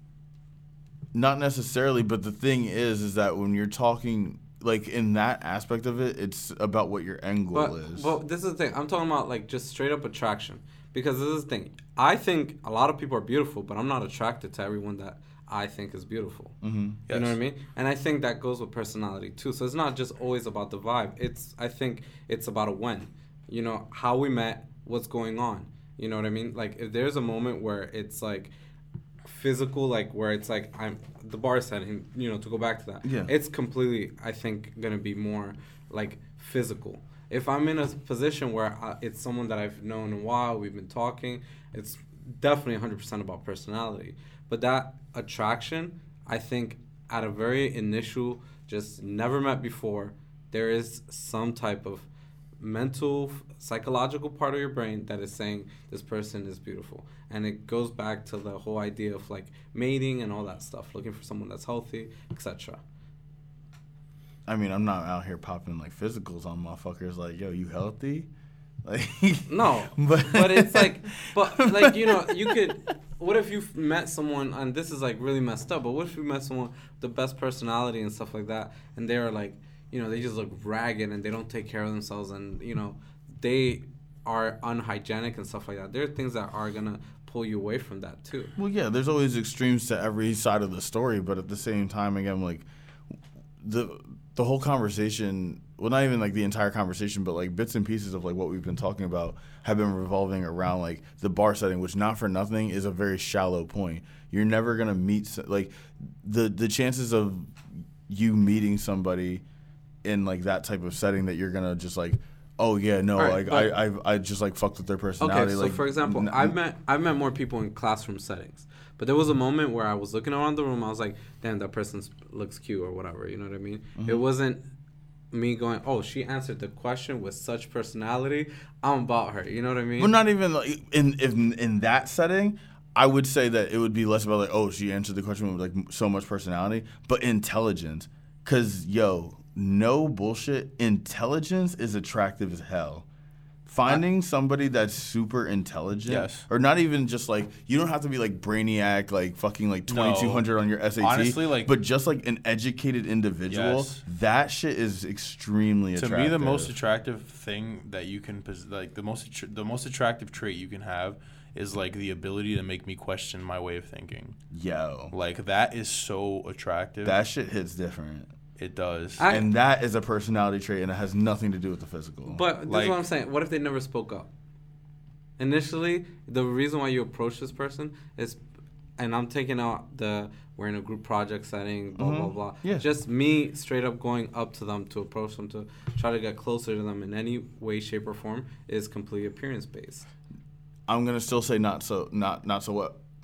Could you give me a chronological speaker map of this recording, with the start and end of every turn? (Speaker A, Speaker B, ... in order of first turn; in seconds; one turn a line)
Speaker A: 1.1-8.1
Speaker B: 7.5-16.6
Speaker A: 16.6-17.0
Speaker B: 17.1-28.5
Speaker C: 17.1-17.4
Speaker B: 29.2-52.1
Speaker A: 33.0-33.3
Speaker B: 52.6-62.8
Speaker A: 64.5-68.3
Speaker A: 68.8-72.7
Speaker B: 69.5-88.5
Speaker A: 88.6-92.7
Speaker A: 93.6-109.4
Speaker A: 110.0-116.5
Speaker B: 113.2-113.8
Speaker B: 115.2-124.6
Speaker A: 124.0-124.2
Speaker B: 125.3-130.1
Speaker A: 130.0-143.1
Speaker A: 143.7-156.7
Speaker C: 146.1-146.4
Speaker C: 149.9-150.4
Speaker C: 151.0-151.7
Speaker C: 153.5-154.0
Speaker C: 155.9-164.4
Speaker A: 164.5-165.1
Speaker C: 165.1-167.2
Speaker A: 167.0-168.3
Speaker C: 168.6-169.3
Speaker B: 169.2-169.5
Speaker A: 169.3-172.4
Speaker B: 172.2-174.3
Speaker C: 172.7-173.0
Speaker B: 175.4-178.4
Speaker B: 179.0-190.1
Speaker A: 182.0-182.9
Speaker A: 190.9-193.0